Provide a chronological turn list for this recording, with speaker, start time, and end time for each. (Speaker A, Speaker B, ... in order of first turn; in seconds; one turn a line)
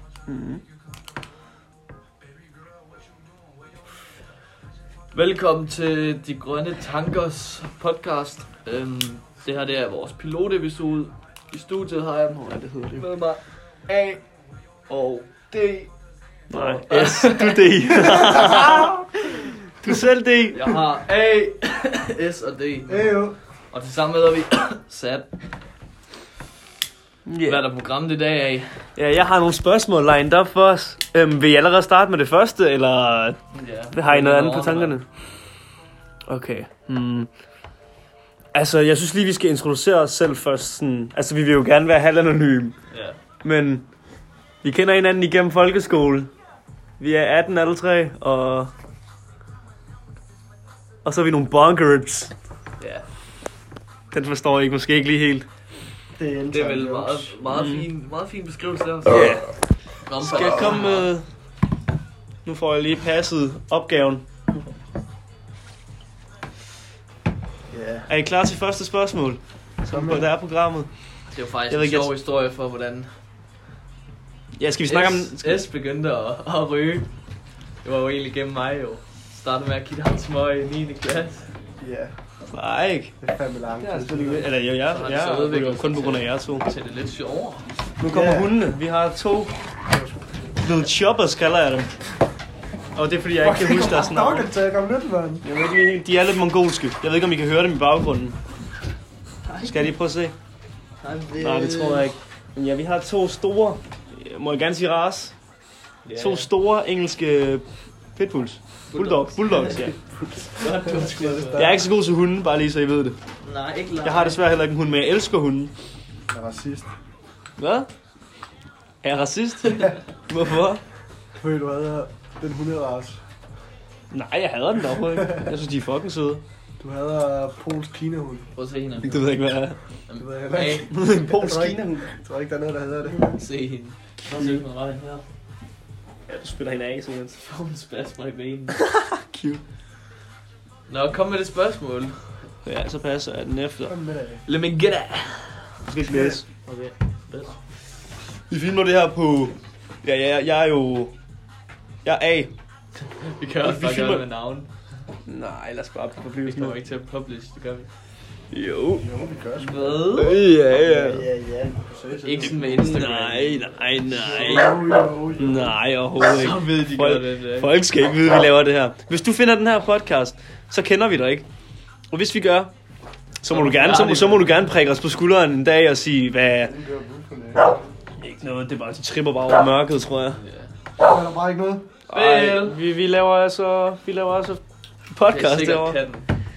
Speaker A: 0.3-0.6
Speaker B: 5.1-14.2
Speaker A: 12.3-13.1
Speaker B: 14.9-15.9
Speaker A: 16.5-20.8
Speaker B: 16.5-19.4
Speaker C: 18.1-18.9
Speaker B: 20.5-23.2
Speaker C: 22.9-23.4
Speaker B: 23.7-25.3
Speaker A: 27.3-27.6
Speaker B: 27.4-28.9
Speaker A: 29.0-33.4
Speaker B: 33.5-35.0
Speaker A: 33.9-35.1
Speaker A: 36.3-37.3
Speaker A: 38.5-42.8
Speaker B: 42.9-43.2
Speaker A: 43.4-43.9
Speaker A: 44.6-46.3
Speaker A: 47.0-48.7
Speaker A: 51.0-52.3
Speaker B: 52.8-53.1
Speaker A: 54.1-55.5
Speaker C: 56.2-57.4
Speaker B: 56.5-59.4
Speaker A: 57.5-57.9
Speaker A: 59.1-59.5
Speaker B: 60.1-61.1
Speaker A: 60.2-61.3
Speaker A: 62.5-64.2
Speaker C: 67.7-68.1
Speaker A: 68.1-70.9
Speaker C: 69.9-70.3
Speaker B: 71.3-73.1
Speaker A: 71.7-72.1
Speaker A: 74.6-75.7
Speaker B: 74.9-77.1
Speaker B: 77.8-81.5
Speaker C: 81.8-82.2
Speaker A: 82.5-83.2
Speaker C: 83.2-84.5
Speaker A: 83.8-86.7
Speaker B: 84.9-87.7
Speaker C: 88.0-88.6
Speaker A: 88.0-89.5
Speaker C: 89.9-90.4
Speaker A: 90.6-91.9
Speaker A: 93.0-94.5
Speaker C: 93.4-95.5
Speaker A: 95.4-98.4
Speaker B: 99.5-99.9
Speaker A: 99.6-100.3
Speaker B: 101.0-102.1
Speaker A: 101.4-105.3
Speaker B: 106.0-106.5
Speaker A: 106.2-107.6
Speaker A: 108.2-110.0
Speaker B: 108.9-109.9
Speaker C: 110.1-111.8
Speaker B: 110.6-111.7
Speaker A: 111.6-113.2
Speaker B: 113.4-114.4
Speaker A: 114.0-115.7
Speaker C: 116.3-116.9
Speaker A: 117.6-117.9
Speaker A: 119.0-120.8
Speaker C: 121.4-123.2
Speaker A: 124.1-126.4
Speaker C: 125.1-125.5
Speaker C: 126.8-128.5
Speaker B: 128.6-129.3
Speaker A: 129.0-129.8
Speaker B: 130.1-130.9
Speaker C: 130.2-133.4
Speaker A: 130.9-132.1
Speaker B: 133.1-135.2
Speaker A: 136.3-137.4
Speaker B: 137.4-138.8
Speaker A: 138.7-139.6
Speaker B: 140.9-142.3
Speaker A: 142.6-143.9
Speaker C: 143.9-144.4
Speaker B: 144.5-145.8
Speaker A: 145.9-146.4
Speaker C: 146.1-146.4
Speaker B: 146.5-147.6
Speaker A: 148.5-151.2
Speaker A: 152.0-152.5
Speaker B: 153.0-154.7
Speaker A: 153.6-154.2
Speaker A: 155.3-156.8
Speaker B: 156.4-157.9
Speaker A: 158.5-159.1
Speaker C: 159.0-160.1
Speaker B: 159.6-160.4
Speaker A: 160.1-161.3
Speaker C: 160.7-163.1
Speaker B: 162.2-164.7
Speaker A: 162.5-171.5
Speaker C: 164.1-165.8
Speaker B: 166.2-167.8
Speaker A: 172.1-172.7
Speaker A: 173.4-176.7
Speaker B: 173.5-174.7
Speaker C: 176.6-177.9
Speaker A: 178.2-180.4
Speaker B: 180.3-180.7
Speaker C: 181.0-181.9
Speaker A: 182.1-186.0
Speaker B: 182.1-182.8
Speaker B: 185.3-186.3